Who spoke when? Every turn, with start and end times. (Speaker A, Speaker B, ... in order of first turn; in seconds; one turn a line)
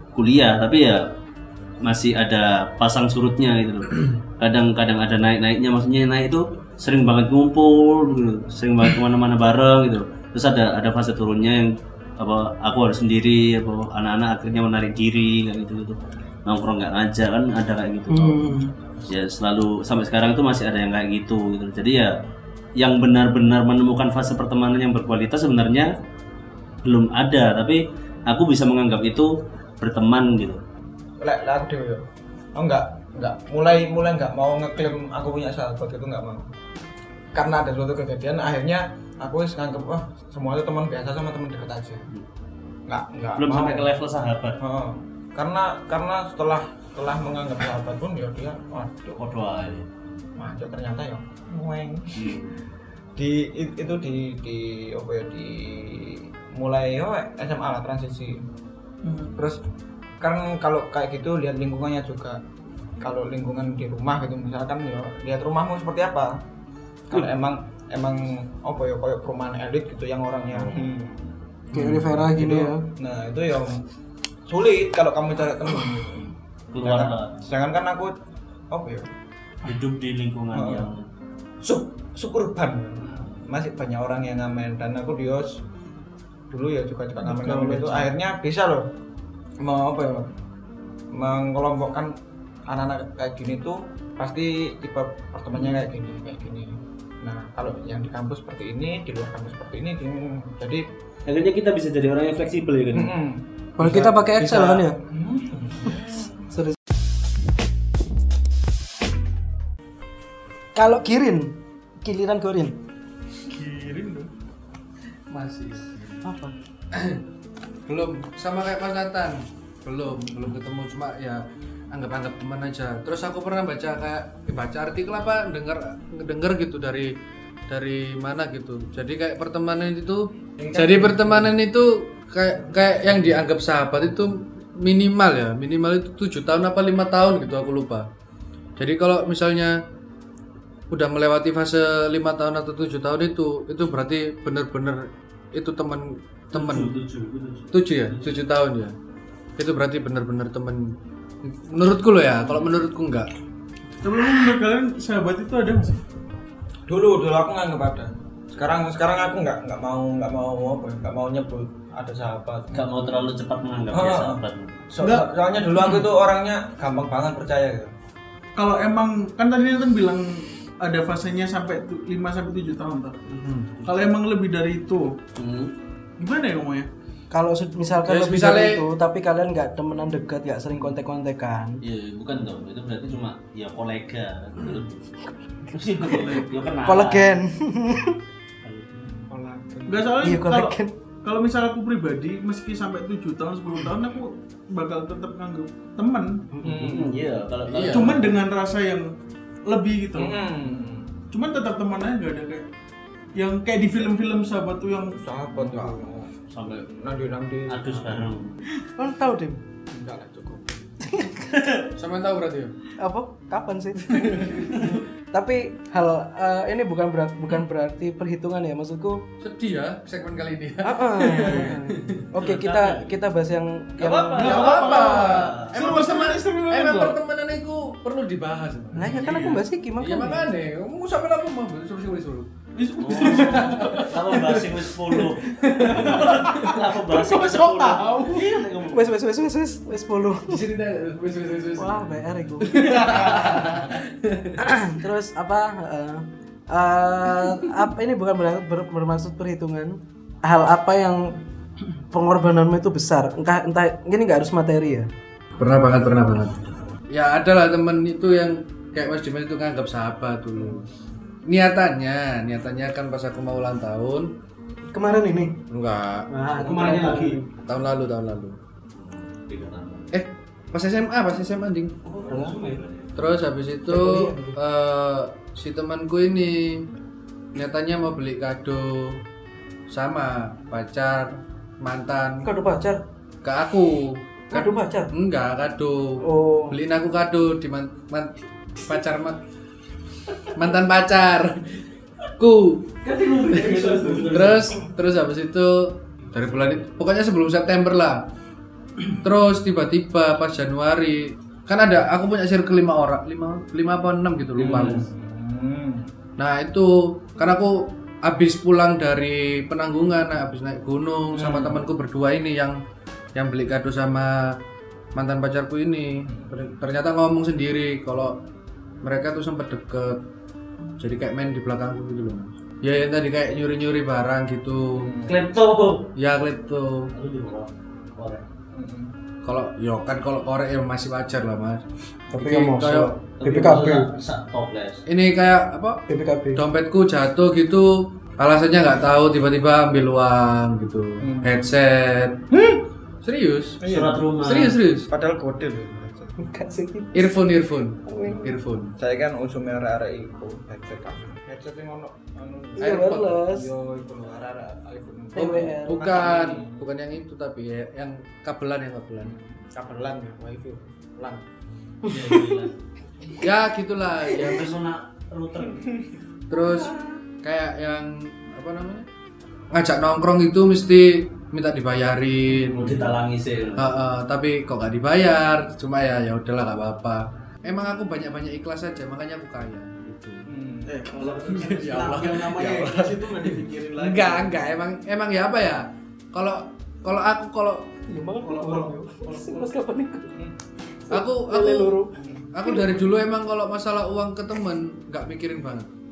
Speaker A: 0.1-1.0
Speaker A: 1.8-22.1
Speaker B: 18.1-18.7
Speaker A: 22.8-25.9
Speaker A: 26.8-29.3
Speaker A: 29.8-30.6
Speaker C: 31.2-36.5
Speaker C: 37.3-42.1
Speaker C: 42.9-43.9
Speaker A: 43.4-44.6
Speaker C: 44.6-49.2
Speaker A: 49.2-49.9
Speaker C: 50.4-52.4
Speaker A: 52.1-52.5
Speaker C: 53.2-58.4
Speaker D: 59.0-59.3
Speaker C: 59.4-59.6
Speaker C: 60.2-62.4
Speaker C: 63.0-66.3
Speaker C: 67.1-73.8
Speaker B: 71.7-72.9
Speaker C: 74.5-78.1
Speaker A: 76.7-77.3
Speaker C: 78.7-79.1
Speaker A: 79.6-81.0
Speaker C: 80.5-80.9
Speaker C: 81.6-85.6
Speaker A: 83.0-83.4
Speaker C: 86.5-88.8
Speaker D: 87.2-88.1
Speaker C: 89.6-90.3
Speaker C: 91.1-92.1
Speaker C: 92.7-100.8
Speaker A: 101.3-103.1
Speaker C: 102.9-106.2
Speaker B: 103.8-105.0
Speaker B: 110.7-112.8
Speaker D: 113.5-114.3
Speaker E: 115.3-116.2
Speaker B: 116.2-116.5
Speaker E: 116.9-117.2
Speaker E: 117.9-121.4
Speaker E: 121.9-127.1
Speaker E: 127.7-130.2
Speaker C: 130.6-131.5
Speaker E: 130.7-138.1
Speaker E: 138.8-139.7
Speaker E: 140.9-145.0
Speaker E: 145.5-146.9
Speaker A: 146.5-148.4
Speaker E: 147.7-148.9
Speaker E: 149.6-150.8
Speaker E: 151.4-153.3
Speaker D: 154.0-156.0
Speaker C: 156.9-162.9
Speaker A: 162.7-164.8
Speaker C: 163.9-167.9
Speaker D: 165.0-166.1
Speaker D: 168.5-173.3
Speaker E: 173.3-173.7
Speaker A: 173.8-174.1
Speaker D: 173.8-175.2
Speaker A: 175.4-175.7
Speaker D: 176.2-176.9
Speaker B: 177.3-181.8
Speaker E: 178.1-178.8
Speaker A: 181.8-185.0
Speaker A: 185.7-187.4
Speaker B: 186.3-188.2
Speaker A: 188.6-189.1
Speaker C: 189.2-190.3
Speaker D: 189.9-196.5
Speaker B: 190.2-190.9
Speaker C: 196.6-197.2
Speaker A: 196.6-198.4
Speaker E: 197.7-198.2
Speaker D: 197.8-199.1
Speaker D: 199.6-200.4
Speaker C: 200.1-201.1
Speaker D: 201.3-202.7
Speaker D: 203.3-205.2
Speaker C: 205.2-206.3
Speaker A: 205.6-205.9
Speaker A: 206.5-206.9
Speaker C: 206.9-208.4
Speaker A: 207.7-208.5
Speaker B: 209.0-209.6
Speaker C: 209.9-210.8
Speaker B: 211.1-211.5
Speaker E: 212.0-212.8
Speaker B: 213.0-219.2
Speaker E: 214.1-214.9
Speaker E: 219.4-222.2
Speaker B: 220.8-224.7
Speaker D: 221.3-221.8
Speaker A: 222.4-223.2
Speaker A: 224.0-226.0
Speaker D: 224.0-227.2
Speaker E: 224.4-229.3
Speaker B: 228.9-230.5
Speaker D: 228.9-229.7
Speaker E: 230.0-232.5
Speaker D: 232.7-234.3
Speaker A: 233.0-239.1
Speaker E: 233.3-234.6
Speaker E: 235.6-236.8
Speaker D: 237.1-238.6
Speaker B: 238.9-240.6
Speaker E: 240.4-244.6
Speaker B: 241.8-243.8
Speaker B: 244.6-251.3
Speaker B: 252.0-255.1
Speaker E: 255.6-256.5
Speaker E: 257.1-260.9
Speaker E: 261.5-264.3
Speaker B: 264.9-265.6
Speaker E: 265.7-266.2
Speaker B: 266.3-267.4
Speaker A: 266.5-267.4
Speaker E: 267.6-268.6
Speaker A: 268.9-270.1
Speaker E: 270.1-271.9
Speaker A: 272.0-273.3
Speaker B: 272.3-272.8
Speaker E: 273.1-276.8
Speaker B: 273.9-274.6
Speaker E: 277.5-279.2
Speaker E: 279.9-282.4
Speaker B: 282.4-283.0
Speaker E: 283.4-289.4
Speaker B: 284.5-285.1
Speaker B: 286.2-286.8
Speaker E: 290.5-291.6
Speaker E: 292.4-292.8
Speaker A: 293.0-294.8
Speaker B: 293.4-294.3
Speaker E: 294.3-295.7
Speaker E: 296.3-298.2
Speaker E: 299.2-305.0
Speaker C: 304.6-306.1
Speaker A: 304.6-305.1
Speaker E: 306.4-312.8
Speaker C: 311.3-311.8
Speaker E: 313.3-314.3
Speaker E: 315.1-318.3
Speaker C: 316.3-316.5
Speaker E: 319.0-320.2
Speaker E: 321.0-325.1
Speaker C: 325.0-325.5
Speaker A: 325.2-326.1
Speaker E: 326.2-327.1
Speaker A: 327.1-328.4
Speaker C: 328.7-329.1
Speaker E: 329.4-331.8
Speaker B: 332.3-334.1
Speaker E: 332.3-333.1
Speaker A: 333.4-335.0
Speaker E: 335.1-336.0
Speaker B: 336.1-336.6
Speaker E: 336.5-337.9
Speaker E: 338.4-342.4
Speaker C: 341.2-341.7
Speaker C: 342.5-342.8
Speaker E: 343.2-343.8
Speaker C: 343.8-344.2
Speaker A: 343.9-344.8
Speaker E: 344.4-345.1
Speaker C: 345.1-346.4
Speaker B: 346.4-347.4
Speaker E: 347.1-348.9
Speaker B: 348.1-348.5
Speaker C: 348.2-356.8
Speaker E: 352.8-353.3
Speaker B: 352.8-353.7
Speaker B: 355.3-356.0
Speaker E: 355.4-359.3
Speaker C: 359.2-361.4
Speaker A: 362.1-362.8
Speaker B: 362.2-362.6
Speaker E: 363.4-364.7
Speaker A: 364.3-365.9
Speaker E: 366.5-369.1
Speaker E: 369.7-373.1
Speaker A: 372.6-374.0
Speaker E: 373.8-380.5
Speaker C: 380.5-381.7
Speaker D: 380.9-384.6
Speaker E: 381.6-385.8
Speaker E: 386.3-387.8
Speaker B: 388.1-390.3
Speaker D: 388.5-388.9
Speaker B: 391.1-392.1
Speaker E: 391.1-392.0
Speaker E: 392.5-395.9